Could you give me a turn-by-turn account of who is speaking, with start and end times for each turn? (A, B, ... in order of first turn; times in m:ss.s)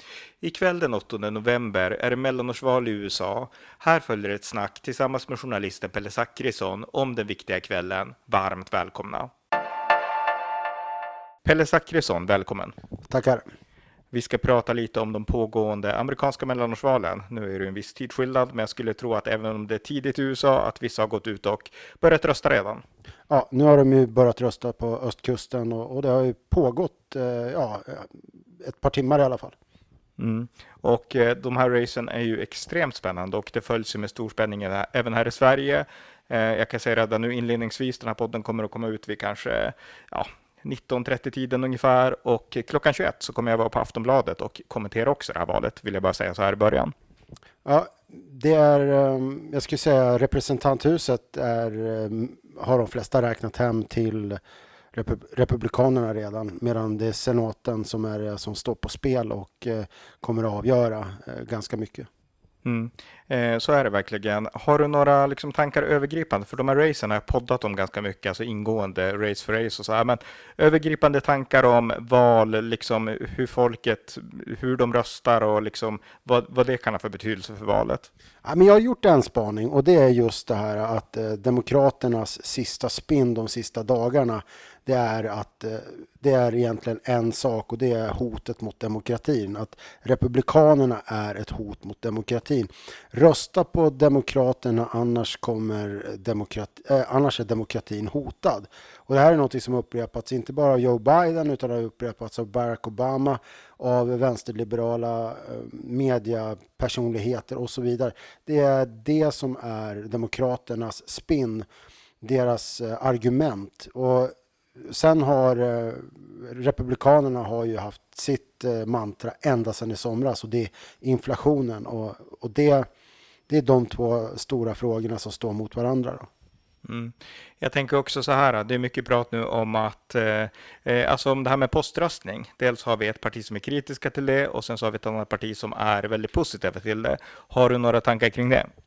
0:00.4-0:09.3 A
0:11.4-0:12.7 A
0:13.1-0:13.4 B
0:14.1-0:22.8 A
0:23.3-0:28.1 B
0:28.6-0:29.5 B
0:30.2-0:46.9 A
0:47.6-0:54.4 B
0:54.9-1:02.1 B
1:02.6-1:18.1 A
1:18.4-1:51.6 B
1:52.2-1:54.3 B
1:54.9-2:02.8 B
2:03.5-2:06.3 B
2:06.8-2:18.7 A